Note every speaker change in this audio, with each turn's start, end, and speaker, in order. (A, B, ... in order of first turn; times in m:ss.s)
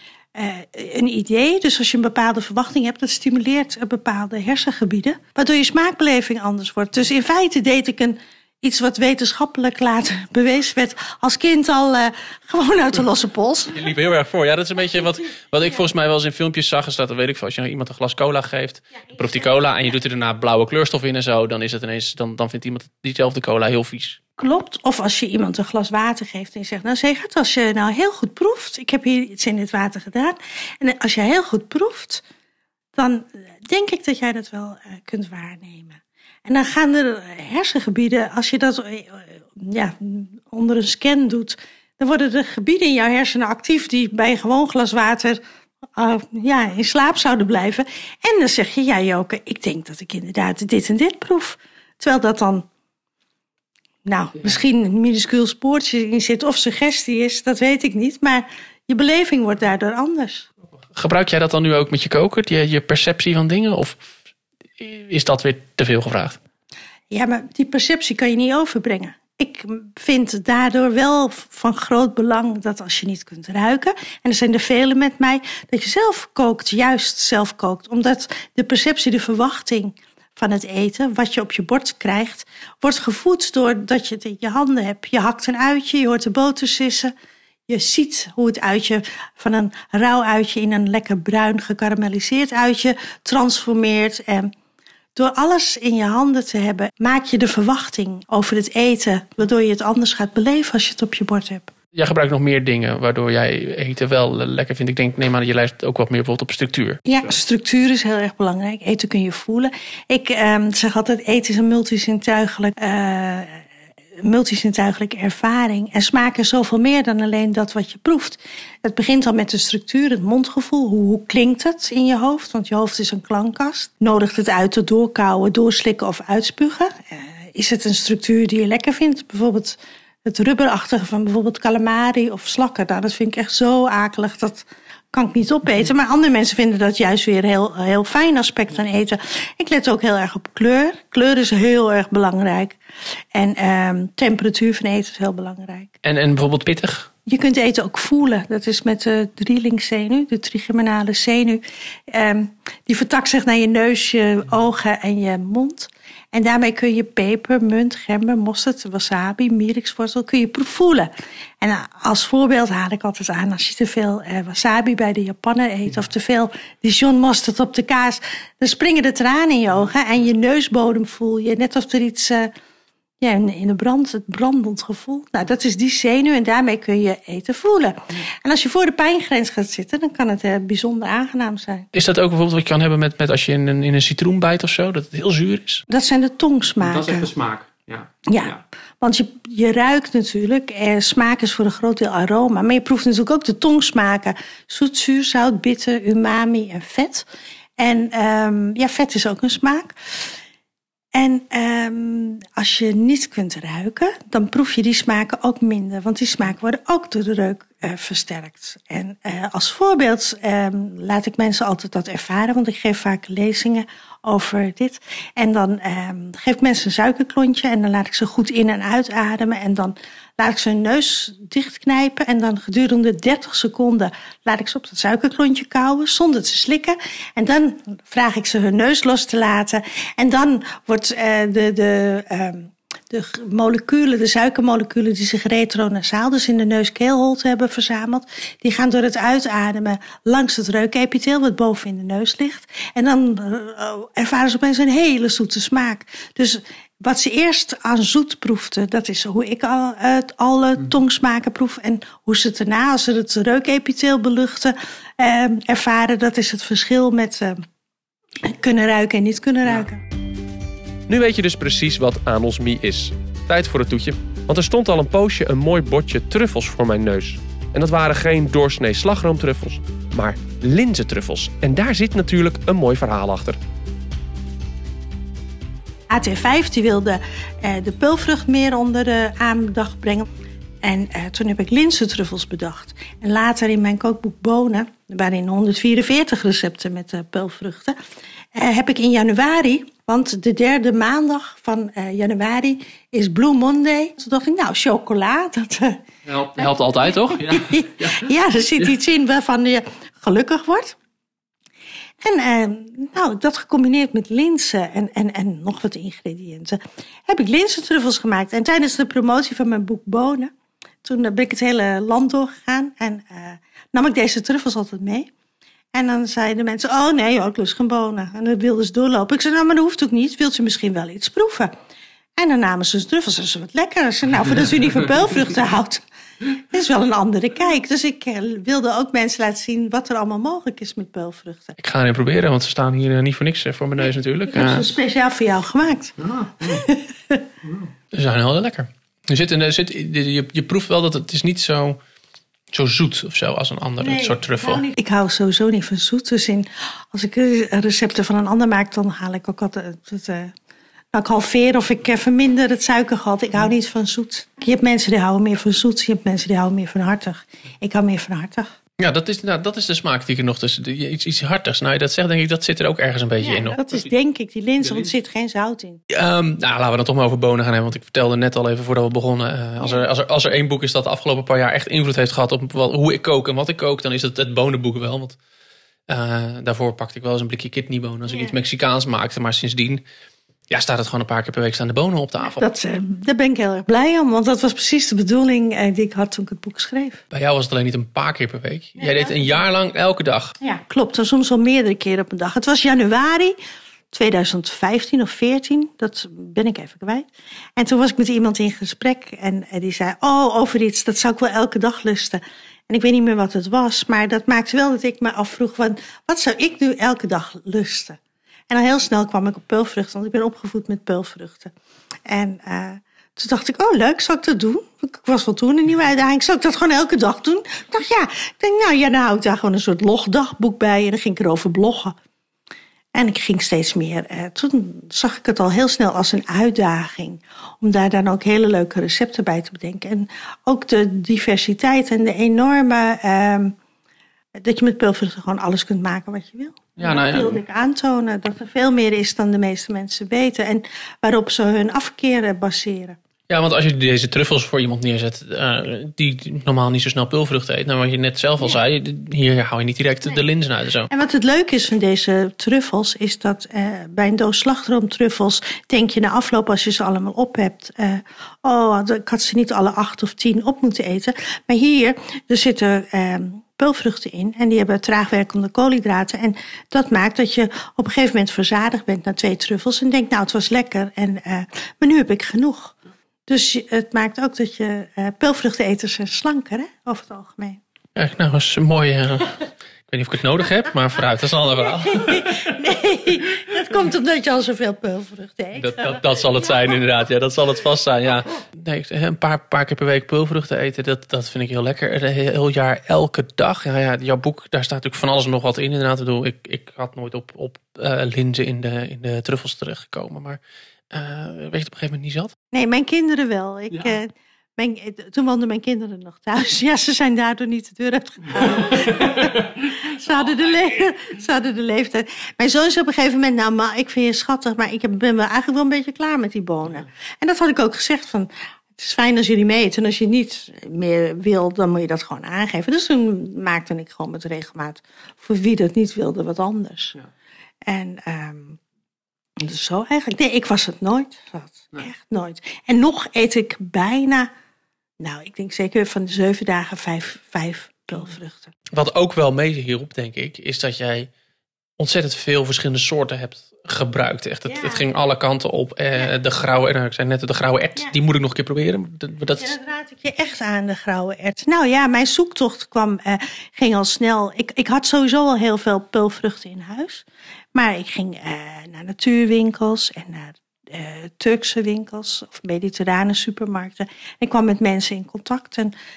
0:00.3-0:13.9 A
0:13.7-0:24.2 B
0:24.4-0:32.2 A
0:32.9-0:45.4 A
0:46.0-0:52.6 A
0:54.0-1:00.5 A
1:01.0-1:04.1 B
1:04.8-1:06.4 B
1:07.1-1:27.1 A
1:27.7-1:34.5 A
1:35.1-1:41.7 A
1:41.9-1:47.0 B
1:47.1-1:53.6 A
1:54.2-2:22.8 A
2:23.3-2:26.0 A
2:26.0-2:27.1 B
2:27.2-2:52.5 A
2:53.2-3:01.9 A
3:01.9-3:05.8 B
3:05.9-3:07.3 A
3:06.8-3:08.6 B
3:08.3-3:17.2 A
3:17.8-3:20.3 A
3:21.1-4:17.6 A
4:18.4-4:20.0 A
4:21.1-4:33.6 C
4:36.1-4:40.3 A
4:40.8-4:48.0 A
4:48.5-4:56.0 A
4:56.2-4:58.3 B
4:57.2-5:01.0 A
5:02.2-5:10.5 A
5:11.0-5:15.3 A
5:15.9-5:21.7 A
5:22.4-5:31.8 A
5:31.8-5:34.9 B
5:34.5-5:37.5 A
5:36.2-5:36.8 B
5:37.7-5:42.0 B
5:42.7-5:44.8 B
5:44.0-5:50.5 A
5:51.1-5:58.7 A
5:59.0-6:04.0 B
6:03.4-6:06.0 A
6:04.8-6:05.1 B
6:06.1-6:15.4 B
6:16.1-6:20.0 B
6:18.3-6:18.5 A
6:20.7-6:22.6 B
6:22.4-6:27.2 A
6:27.3-6:30.5 B
6:29.0-6:29.6 A
6:30.6-6:33.6 A
6:34.1-6:51.7 A
6:52.3-7:02.2 A
7:03.1-7:13.8 A
7:14.6-7:23.2 A
7:17.0-7:17.6 B
7:23.5-7:31.1 B
7:31.1-7:53.0 A
7:53.5-7:57.8 A
7:58.2-8:02.8 B
8:01.9-8:06.2 A
8:05.8-8:20.6 B
8:21.1-8:22.5 B
8:22.7-8:47.1 A
8:28.9-8:29.7 B
8:47.9-8:48.8 A
8:49.6-8:54.5 A
8:55.2-8:58.7 A
8:58.9-9:01.3 B
9:02.0-9:09.8 B
9:04.7-9:05.0 A
9:09.5-9:25.9 A